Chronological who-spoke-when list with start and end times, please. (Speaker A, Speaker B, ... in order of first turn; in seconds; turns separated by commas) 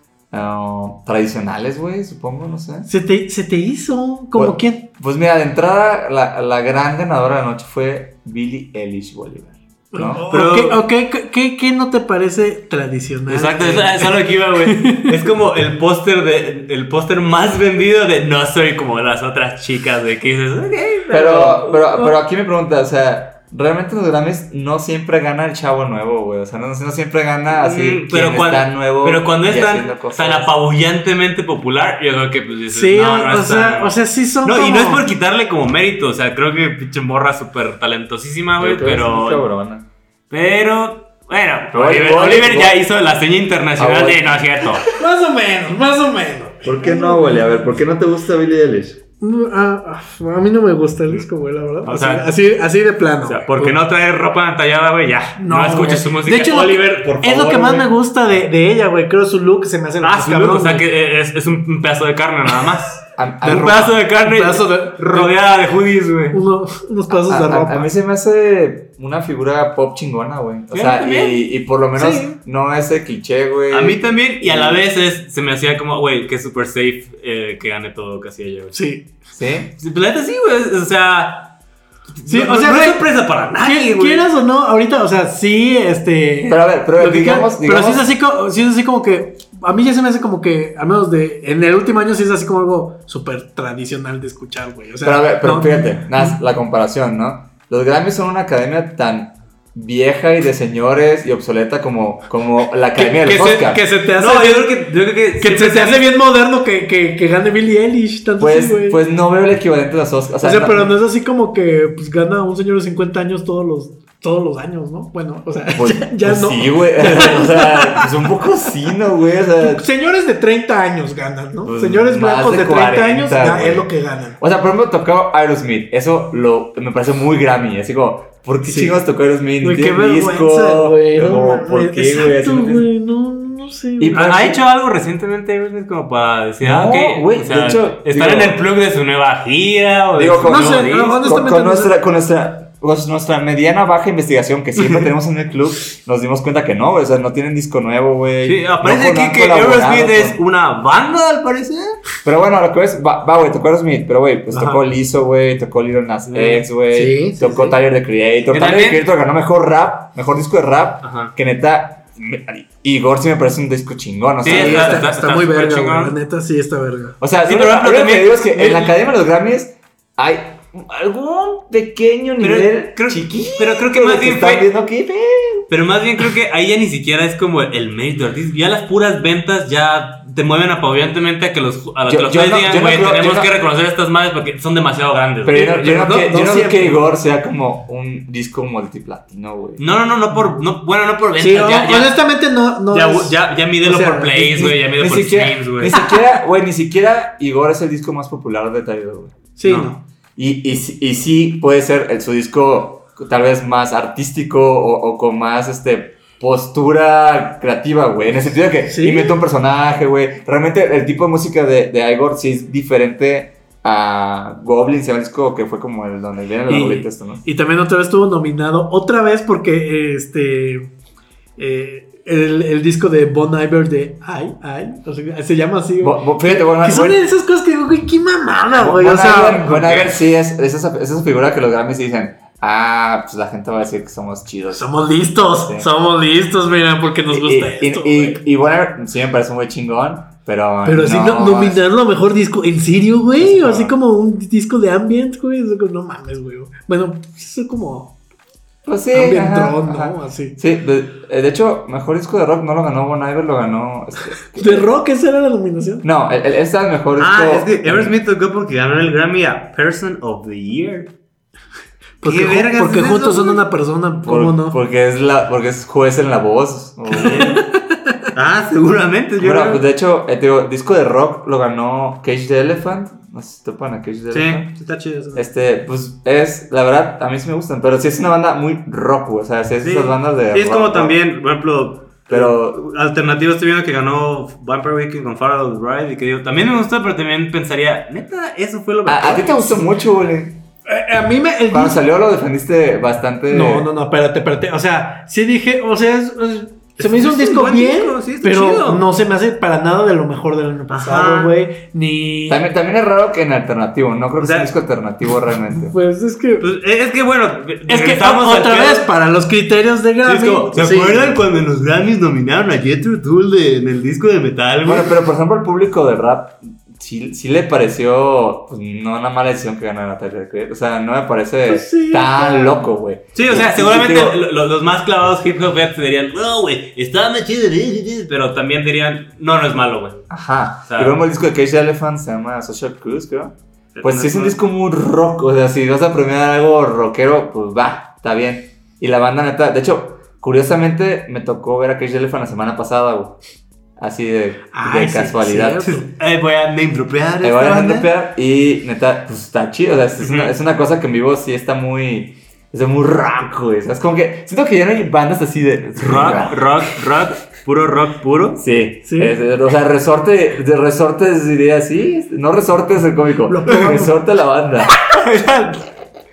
Speaker A: 0.3-2.9, Speaker B: 2.9-4.8, Speaker A: 4.3-10.2, Speaker B: 9.9-15.2, Speaker C: 10.3-10.8, Speaker C: 13.3-22.1, Speaker A: 21.1-30.5, Speaker C: 27.5-39.5, Speaker B: 32.7-35.0, Speaker A: 38.6-39.9, Speaker C: 40.3-44.9, Speaker A: 41.7-42.8, Speaker A: 43.8-44.8, Speaker B: 44.9-47.5, Speaker A: 46.6-49.0, Speaker B: 49.2-53.8, Speaker C: 51.8-52.2, Speaker C: 53.2-57.9, Speaker B: 55.4-60.8, Speaker C: 60.0-66.4, Speaker A: 63.1-64.0, Speaker B: 64.2-65.3, Speaker B: 66.3-67.9, Speaker A: 67.1-74.8, Speaker C: 70.7-71.4, Speaker B: 72.0-72.3, Speaker C: 73.7-78.8, Speaker B: 78.7-79.1, Speaker A: 79.3-79.7, Speaker C: 79.8-81.6, Speaker C: 82.1-84.3, Speaker B: 82.3-83.0, Speaker B: 83.6-96.3, Speaker A: 86.4-88.0, Speaker A: 95.0-103.8, Speaker B: 102.9-104.7, Speaker C: 104.1-106.0, Speaker B: 105.4-109.0, Speaker A: 108.4-111.0, Speaker B: 110.4-118.1, Speaker A: 115.7-119.8, Speaker B: 119.6-124.4, Speaker A: 121.6-132.9, Speaker B: 128.6-128.9, Speaker B: 129.6-134.5, Speaker A: 134.0-134.6, Speaker C: 134.1-141.2, Speaker A: 136.6-138.6, Speaker A: 140.1-150.4, Speaker B: 140.4-141.9, Speaker C: 148.4-152.0, Speaker A: 152.2-165.1, Speaker B: 154.5-154.8, Speaker C: 156.3-156.7, Speaker B: 156.9-157.7, Speaker C: 158.5-159.0, Speaker C: 161.0-161.3, Speaker C: 164.4-166.1, Speaker B: 164.4-167.2, Speaker A: 167.2-175.7, Speaker C: 167.4-168.4, Speaker B: 168.5-168.9, Speaker C: 172.4-174.7, Speaker C: 175.7-187.0, Speaker A: 182.0-183.5, Speaker A: 185.4-189.8, Speaker C: 189.8-192.2, Speaker B: 191.4-194.8, Speaker C: 192.9-196.0, Speaker A: 194.9-199.3, Speaker B: 199.6-200.0, Speaker C: 199.6-199.9, Speaker A: 200.3-217.4, Speaker B: 208.9-209.4, Speaker B: 216.7-220.9, Speaker B: 221.6-229.9, Speaker A: 226.0-227.2, Speaker A: 228.7-234.9, Speaker C: 229.8-230.1, Speaker B: 234.7-238.4, Speaker A: 235.6-235.9, Speaker A: 237.3-241.8, Speaker B: 240.8-248.1, Speaker A: 243.4-243.9, Speaker A: 248.8-254.9, Speaker B: 249.1-250.6, Speaker B: 254.6-256.0, Speaker A: 256.0-258.1, Speaker C: 257.2-261.1, Speaker B: 262.2-264.8, Speaker C: 262.2-263.6, Speaker A: 264.2-267.6, Speaker C: 267.1-267.6, Speaker B: 267.1-267.8, Speaker C: 268.3-269.8, Speaker A: 269.4-274.7, Speaker C: 274.3-275.4, Speaker A: 275.3-281.2, Speaker C: 279.8-289.8, Speaker A: 282.3-282.8, Speaker A: 289.0-290.6, Speaker B: 290.9-292.0, Speaker A: 291.7-293.9, Speaker B: 293.5-302.6, Speaker C: 297.0-299.0, Speaker C: 300.9-301.5, Speaker A: 302.5-306.0, Speaker C: 304.4-304.7, Speaker B: 305.7-306.7, Speaker C: 306.6-309.1, Speaker B: 307.9-311.3, Speaker C: 310.2-315.1, Speaker A: 314.8-324.4, Speaker B: 321.7-322.9, Speaker C: 323.3-330.3, Speaker A: 330.3-343.4, Speaker C: 330.9-331.1, Speaker C: 333.9-334.6, Speaker A: 344.0-346.0, Speaker B: 344.7-346.1, Speaker C: 345.9-348.1, Speaker A: 347.4-356.7, Speaker C: 350.2-350.5, Speaker C: 356.0-358.6, Speaker A: 358.5-364.9, Speaker B: 359.1-359.3, Speaker B: 363.5-364.0, Speaker C: 365.0-365.9